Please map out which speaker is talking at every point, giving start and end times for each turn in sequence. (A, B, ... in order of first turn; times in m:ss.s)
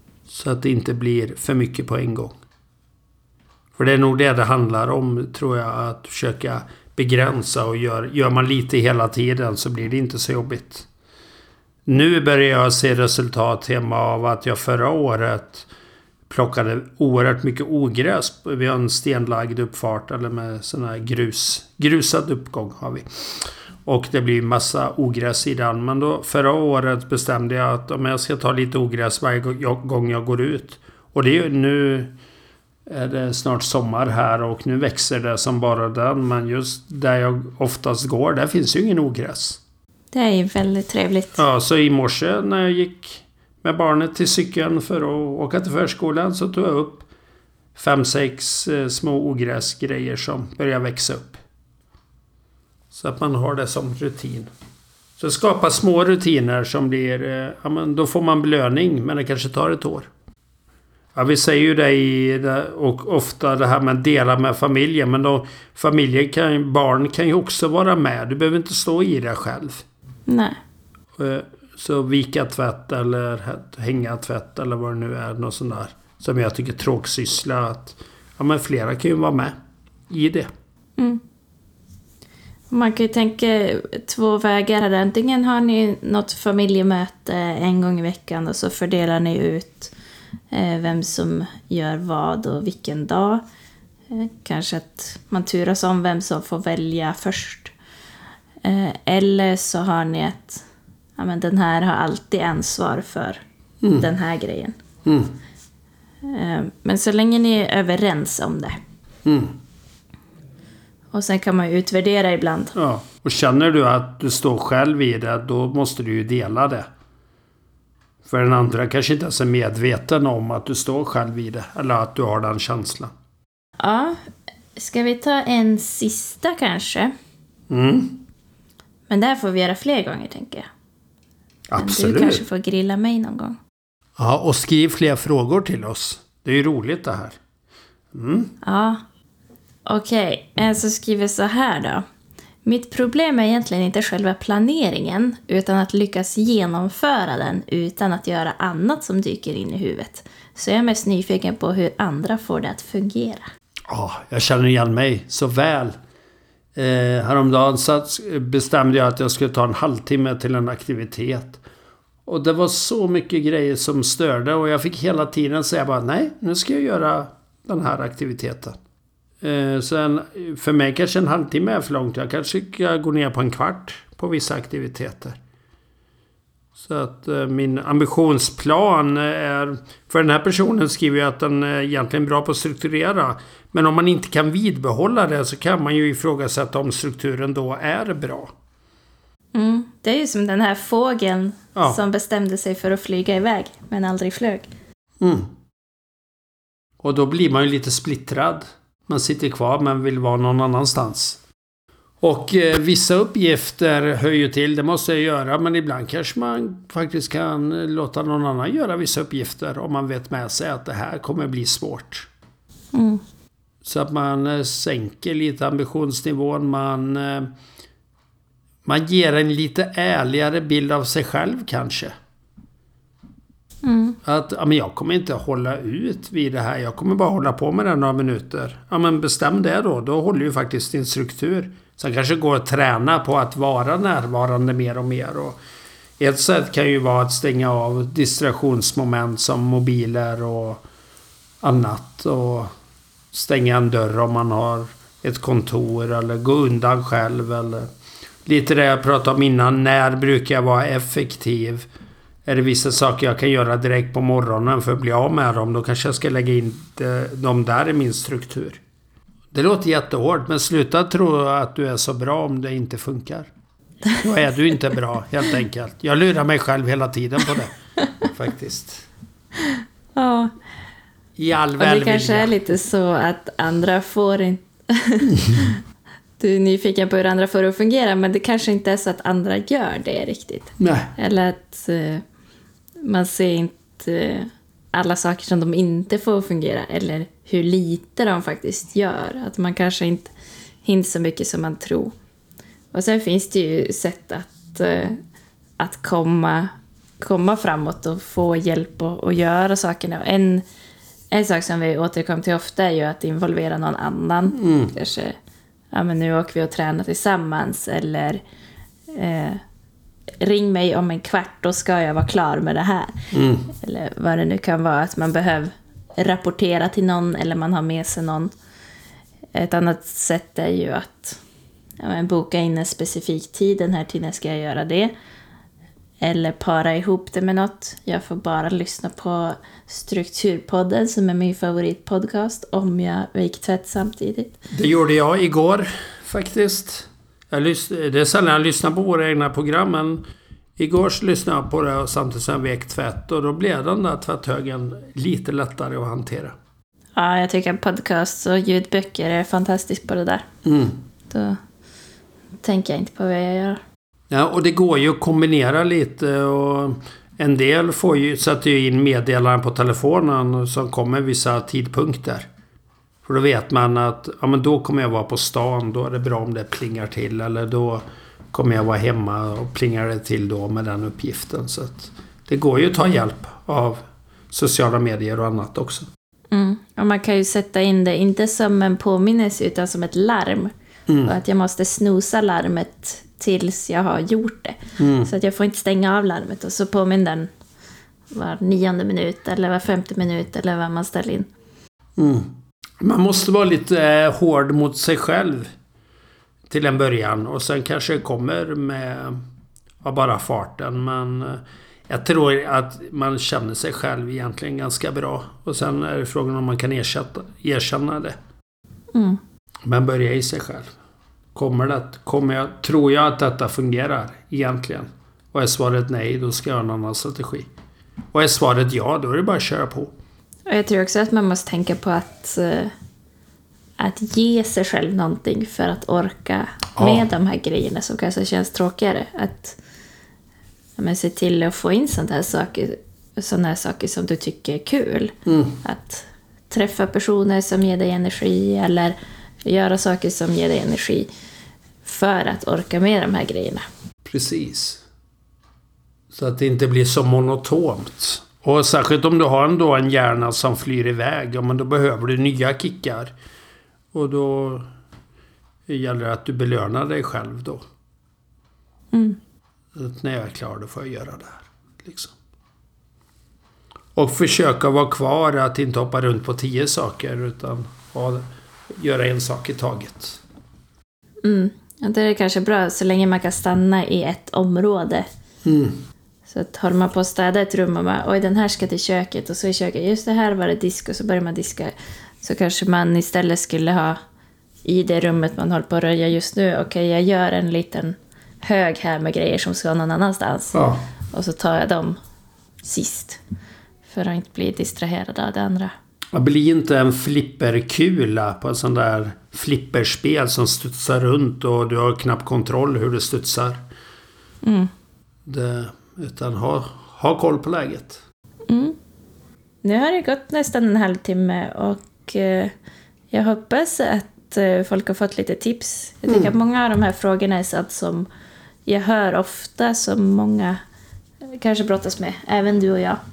0:00.3-0:02.4 A
0:03.7-0:10.9 A
0:11.8-0:15.7 A
0:16.3-0:32.1 A
0:32.9-0:39.6 A
0:40.1-0:41.4 B
0:41.4-0:47.1 A
0:47.7-0:51.4 A
0:52.9-0:54.5 A
0:55.2-1:00.1 A
1:01.1-1:09.8 A
1:10.3-1:10.6 B
1:11.2-1:19.5 A
1:20.1-1:20.5 A
1:22.7-1:29.9 B
1:30.5-1:33.4 B
1:34.1-1:37.7 B
1:38.6-1:40.6 B
1:41.2-1:43.4 B
1:43.8-1:44.1 A
1:43.9-1:44.8 B
1:45.0-1:45.3 A
1:46.2-1:48.8 B
1:49.2-1:49.5 A
1:51.1-1:52.7 B
1:52.7-1:56.9 A
1:58.2-2:03.1 A
2:03.8-2:04.2 B
2:04.8-2:07.1 B
2:07.7-2:08.2 A
2:09.1-2:10.7 B
2:11.7-2:12.4 A
2:11.8-2:13.6 B
2:14.2-2:17.4 A
2:18.1-2:18.5 A
2:18.6-2:19.0 B
2:19.8-2:22.0 B
2:22.6-2:33.5 B
2:33.9-2:36.0 A
2:36.8-2:41.6 A
2:42.2-2:48.8 A
2:49.4-2:55.4 A
2:56.8-3:08.5 A
3:09.5-3:14.7 B
3:15.2-3:15.5 A
3:17.0-3:21.4 A
3:22.2-3:32.3 A
3:32.9-3:33.2 B
3:33.8-3:37.5 A
3:38.8-3:42.1 A
3:43.8-3:44.2 B
3:44.2-3:55.6 A
3:56.2-4:00.8 A
4:01.6-4:02.7 A
4:03.3-4:07.9 A
4:08.4-4:11.9 A
4:12.4-4:18.8 A
4:19.5-4:23.5 A
4:24.2-4:29.1 A
4:29.6-4:30.5 B
4:31.4-4:32.5 A
4:31.8-4:35.8 B
4:36.4-4:42.2 B
4:40.8-4:41.1 A
4:43.0-4:50.3 B
4:50.8-4:52.1 B
4:52.9-4:55.2 B
4:55.8-5:00.6 B
5:01.3-5:05.4 B
5:04.6-5:04.9 A
5:05.9-5:08.4 B
5:09.1-5:09.6 B
5:10.4-5:18.5 B
5:13.3-5:13.7 A
5:19.5-5:21.4 B
5:22.0-5:25.1 B
5:26.2-5:34.6 B
5:34.7-5:40.2 A
5:40.8-5:46.5 A
5:47.2-5:50.4 B
5:50.6-5:51.0 A
5:51.3-5:51.6 B
5:52.6-5:53.8 B
5:54.3-6:02.5 A
6:03.2-6:16.1 A
6:16.5-6:20.7 B
6:21.1-6:21.3 A
6:21.2-6:27.5 B
6:25.0-6:25.3 A
6:28.3-6:31.5 B
6:32.2-6:35.7 A
6:36.7-6:39.4 A
6:40.0-6:48.4 A
6:49.1-6:49.4 B
6:49.8-6:50.9 A
6:51.5-6:57.7 A
6:58.3-7:00.1 A
7:00.7-7:02.9 B
7:04.0-7:09.8 B
7:07.0-7:07.3 A
7:11.0-7:21.3 B
7:15.5-7:15.8 A
7:22.0-7:23.8 B
7:24.2-7:25.0 A
7:26.3-7:33.3 A
7:34.1-7:34.9 A
7:35.9-7:37.8 A
7:39.1-7:39.4 B
7:39.9-7:42.3 A
7:44.1-7:50.4 A
7:51.4-7:55.3 B
7:55.6-7:56.0 A
7:56.4-8:04.2 B
8:04.8-8:10.8 B
8:10.7-8:11.0 A
8:11.3-8:12.2 B
8:12.8-8:13.4 B
8:14.0-8:15.9 B
8:16.3-8:23.8 A
8:24.6-8:24.9 B
8:25.4-8:28.2 A
8:28.7-8:29.0 B
8:29.8-8:32.7 B
8:33.3-8:38.3 B
8:36.3-8:36.5 A
8:38.8-8:40.8 B
8:41.5-8:43.2 B